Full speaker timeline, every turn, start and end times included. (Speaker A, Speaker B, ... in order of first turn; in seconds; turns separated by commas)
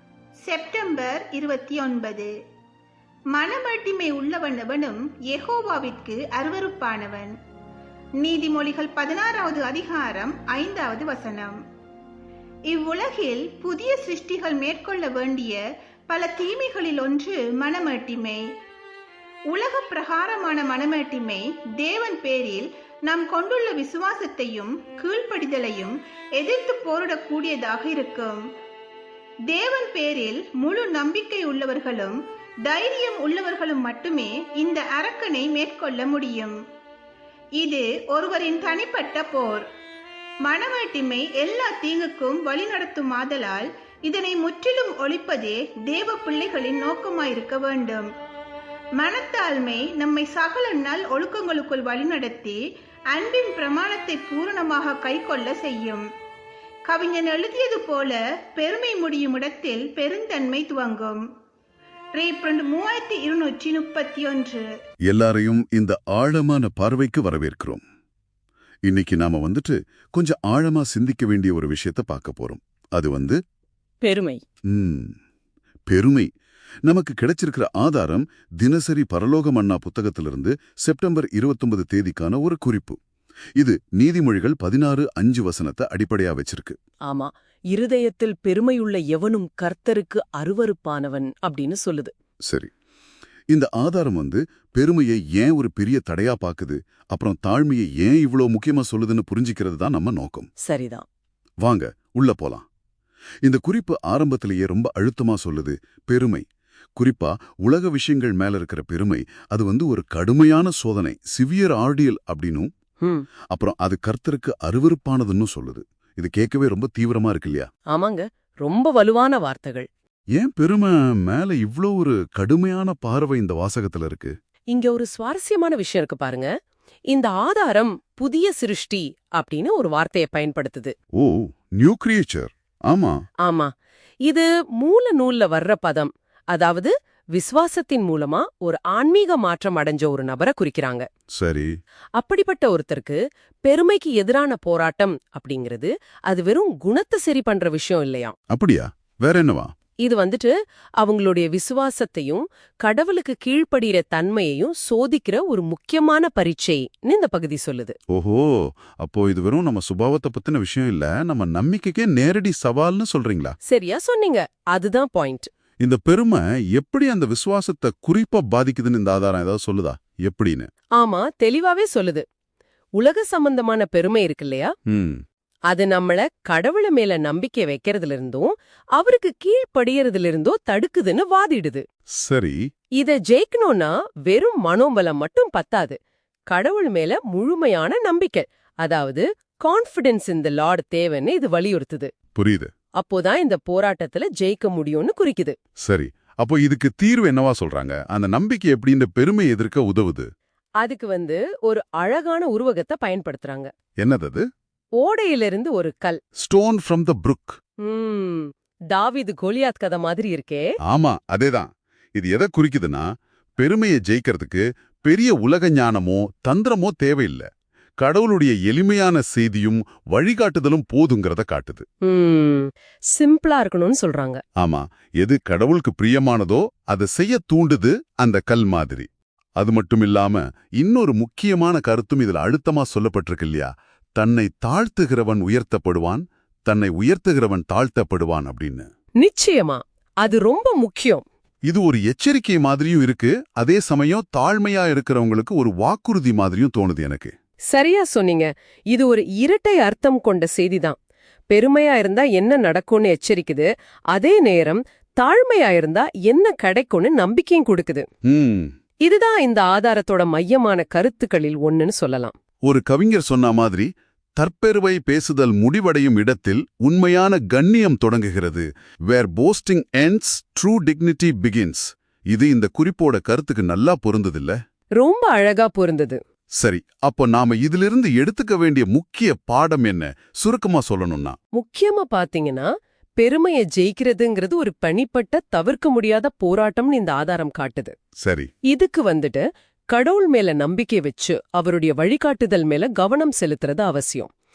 Speaker A: 0.5-2.3, Speaker A: 3.3-7.3, Speaker A: 8.2-11.6, Speaker A: 12.7-15.6, Speaker A: 16.1-18.4, Speaker A: 19.5-28.4, Speaker A: 29.5-32.2, Speaker A: 32.7-36.6, Speaker A: 37.6-39.6, Speaker A: 40.5-48.1, Speaker A: 49.0-52.6, Speaker A: 53.1-56.0, Speaker A: 56.9-61.2, Speaker A: 62.2-64.7, Speaker B: 65.1-67.8, Speaker B: 68.9-73.4, Speaker B: 74.7-75.1, Speaker B: 75.9-76.3, Speaker B: 76.9-83.0, Speaker B: 83.6-86.8, Speaker C: 87.1-92.1, Speaker B: 93.5-100.5, Speaker C: 100.6-101.0, Speaker B: 101.6-102.7, Speaker B: 103.4-106.5, Speaker B: 107.0-112.7, Speaker B: 113.5-117.7, Speaker C: 117.9-119.9, Speaker B: 120.4-124.3, Speaker C: 124.7-126.5, Speaker C: 127.1-130.9, Speaker B: 131.1-133.2, Speaker C: 133.4-133.7, Speaker C: 134.2-141.1, Speaker B: 141.3-141.8, Speaker C: 142.2-148.3, Speaker B: 148.5-149.7, Speaker C: 150.0-157.9, Speaker B: 158.1-163.6, Speaker C: 163.7-165.5, Speaker B: 165.8-170.7, Speaker C: 171.0-172.2, Speaker C: 173.0-174.7, Speaker B: 174.9-175.2, Speaker C: 175.7-181.8, Speaker B: 182.2-182.6, Speaker C: 183.0-186.0, Speaker C: 186.5-192.1, Speaker B: 192.4-192.7, Speaker C: 193.0-195.6, Speaker B: 195.8-200.3, Speaker C: 200.8-203.7, Speaker B: 204.0-204.4, Speaker C: 205.0-206.2, Speaker B: 206.4-207.6, Speaker C: 207.8-210.7, Speaker B: 210.9-217.5, Speaker B: 218.0-221.9, Speaker C: 222.0-224.4, Speaker B: 224.6-238.9, Speaker C: 239.2-241.2, Speaker B: 241.7-247.3, Speaker C: 247.7-251.0, Speaker C: 251.5-258.1, Speaker B: 258.2-258.7, Speaker C: 259.1-262.3, Speaker B: 262.6-274.6, Speaker C: 275.0-276.2, Speaker B: 276.6-281.4, Speaker C: 281.6-287.9, Speaker B: 288.2-288.5, Speaker C: 288.7-294.3